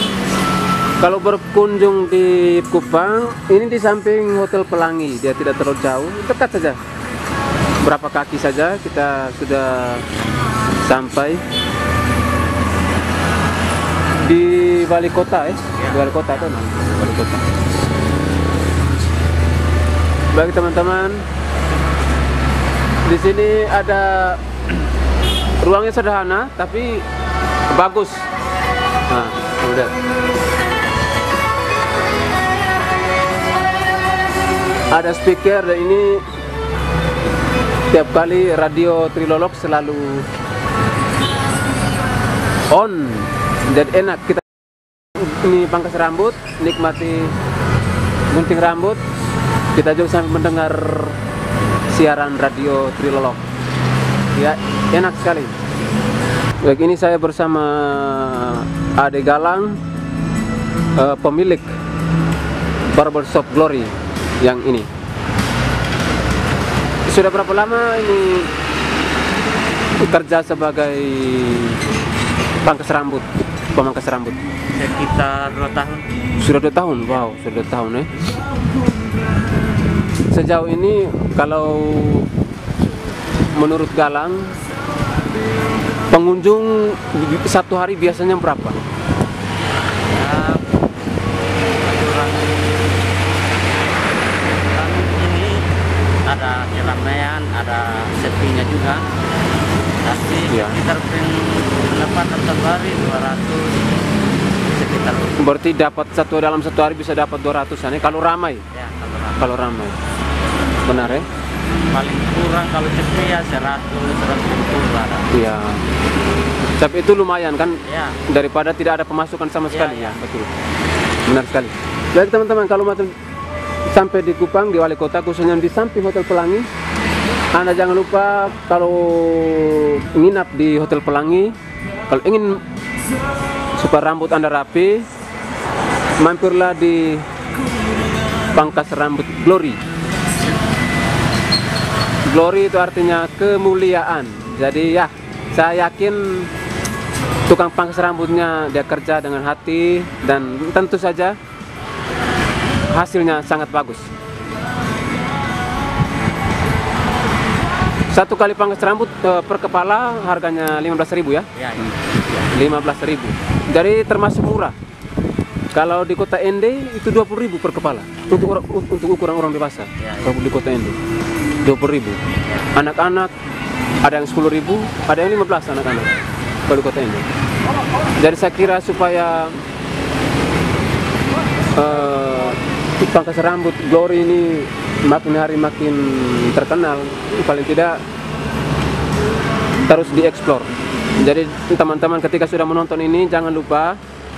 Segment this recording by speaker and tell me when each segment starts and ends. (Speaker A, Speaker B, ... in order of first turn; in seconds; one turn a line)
Speaker A: 1.0-6.8
Speaker A: 7.8-10.1
Speaker A: 10.8-11.4
Speaker A: 14.2-17.4
Speaker B: 15.8-16.6
Speaker A: 20.3-21.2
Speaker A: 23.0-24.4
Speaker A: 25.6-27.1
Speaker A: 27.7-28.3
Speaker A: 29.1-29.9
Speaker A: 34.9-36.2
Speaker A: 37.9-40.3
Speaker A: 42.7-44.5
Speaker A: 45.1-47.4
Speaker A: 48.3-49.0
Speaker A: 49.7-51.2
Speaker A: 51.9-53.4
Speaker A: 54.3-55.5
Speaker A: 56.6-59.8
Speaker A: 61.0-61.7
Speaker A: 62.9-64.9
Speaker A: 67.1-68.5
Speaker A: 70.0-71.8
Speaker A: 72.6-74.4
Speaker B: 74.7-76.1
Speaker A: 76.3-78.1
Speaker A: 80.3-82.3
Speaker A: 83.5-84.6
Speaker A: 86.1-88.8
Speaker B: 90.1-90.8
Speaker B: 91.8-93.0
Speaker B: 94.5-95.7
Speaker B: 96.2-99.1
Speaker B: 100.0-103.9
Speaker A: 100.5-100.8
Speaker B: 104.6-105.4
Speaker A: 105.4-108.6
Speaker B: 108.7-109.4
Speaker A: 109.4-110.0
Speaker A: 110.8-111.3
Speaker B: 111.9-115.3
Speaker A: 115.3-115.8
Speaker A: 116.8-120.5
Speaker B: 117.8-118.2
Speaker B: 119.7-120.2
Speaker A: 121.2-123.1
Speaker A: 123.9-126.7
Speaker A: 127.5-131.5
Speaker A: 132.1-132.6
Speaker A: 133.8-135.1
Speaker A: 136.2-137.3
Speaker A: 138.5-139.8
Speaker A: 142.2-146.5
Speaker A: 147.4-151.4
Speaker A: 152.9-154.1
Speaker A: 158.1-164.7
Speaker B: 161.6-162.0
Speaker A: 165.7-171.0
Speaker B: 170.0-170.3
Speaker A: 171.6-172.2
Speaker A: 172.7-173.3
Speaker A: 174.0-176.2
Speaker A: 176.7-177.3
Speaker A: 178.2-179.6
Speaker A: 181.7-188.0
Speaker A: 189.8-194.0